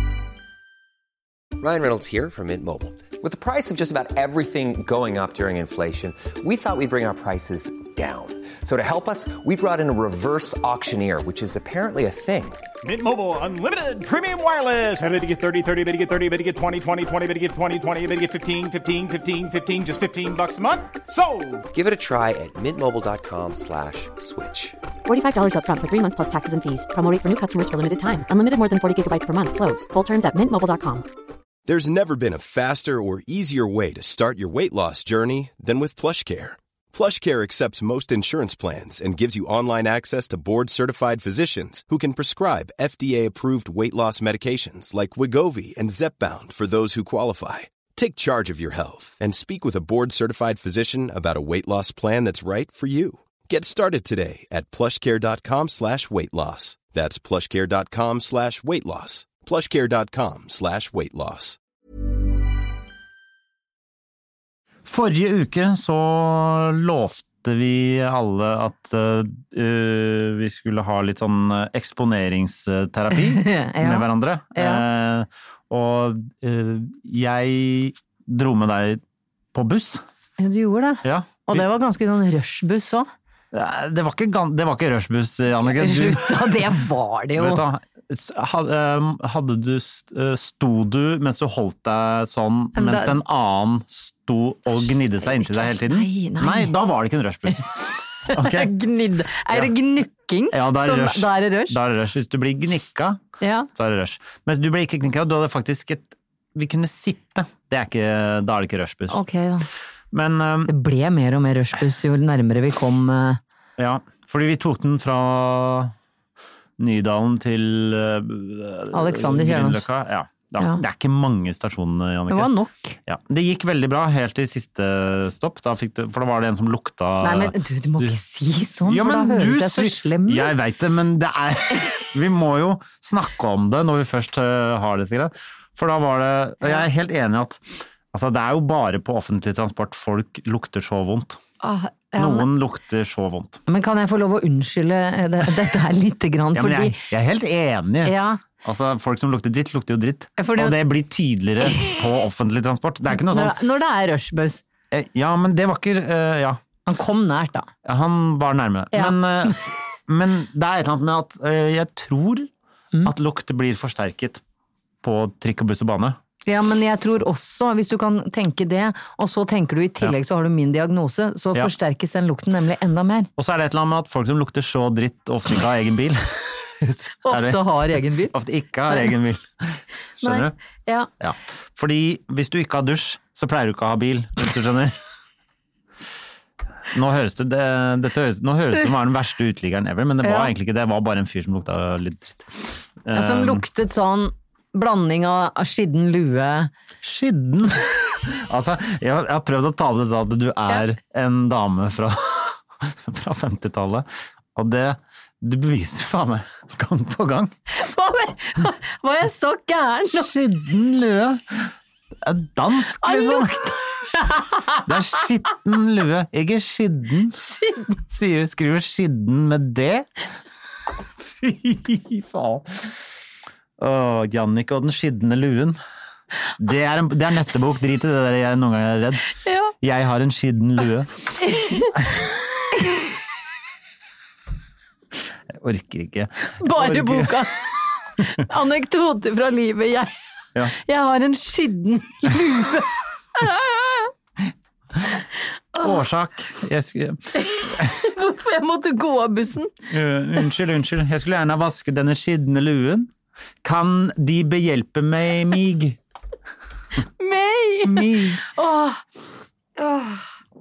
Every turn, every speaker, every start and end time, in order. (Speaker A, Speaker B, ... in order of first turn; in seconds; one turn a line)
Speaker A: 1.6-12.6
Speaker B: 12.8-21.6
Speaker A: 21.7-24.8
Speaker C: 25.1-31.0
Speaker D: 31.7-61.6
Speaker E: 64.8-79.0
Speaker F: 73.1-74.8
Speaker E: 79.5-80.0
Speaker F: 80.4-83.1
Speaker E: 81.0-81.6
Speaker E: 83.5-86.7
Speaker F: 85.7-87.6
Speaker E: 87.4-98.7
Speaker F: 92.7-93.2
Speaker F: 95.2-96.7
Speaker F: 98.3-101.8
Speaker E: 100.5-103.2
Speaker F: 103.4-103.7
Speaker E: 103.7-109.2
Speaker F: 109.1-109.7
Speaker E: 110.1-110.7
Speaker F: 110.7-113.4
Speaker E: 113.8-115.9
Speaker E: 116.8-122.5
Speaker F: 118.9-119.8
Speaker F: 120.6-120.8
Speaker F: 122.3-123.0
Speaker E: 123.0-128.2
Speaker F: 127.2-130.5
Speaker E: 128.8-141.4
Speaker F: 141.6-142.5
Speaker E: 142.2-143.6
Speaker F: 143.7-147.0
Speaker E: 146.5-153.5
Speaker F: 148.0-148.4
Speaker F: 150.4-150.8
Speaker F: 151.7-151.9
Speaker F: 153.1-154.6
Speaker E: 154.9-156.6
Speaker F: 156.8-157.7
Speaker E: 157.8-162.5
Speaker F: 158.9-159.6
Speaker E: 163.0-164.4
Speaker E: 165.0-166.2
Speaker F: 166.4-173.3
Speaker E: 173.4-180.5
Speaker F: 177.2-178.3
Speaker F: 180.2-181.1
Speaker E: 181.2-185.0
Speaker E: 186.9-193.6
Speaker F: 190.2-190.5
Speaker F: 193.1-196.7
Speaker E: 197.0-207.5
Speaker F: 207.7-210.3
Speaker E: 210.1-213.7
Speaker F: 213.0-214.8
Speaker E: 214.8-217.4
Speaker F: 217.5-217.9
Speaker E: 218.0-220.1
Speaker E: 221.2-222.9
Speaker E: 223.8-225.8
Speaker E: 226.6-229.3
Speaker F: 229.4-229.7
Speaker E: 229.8-231.3
Speaker F: 231.4-231.9
Speaker E: 235.5-237.4
Speaker F: 236.6-240.1
Speaker F: 240.7-244.1
Speaker E: 245.8-248.1
Speaker F: 247.4-249.7
Speaker E: 249.9-253.1
Speaker E: 253.6-256.0
Speaker F: 257.2-259.0
Speaker E: 257.8-258.4
Speaker F: 259.8-260.2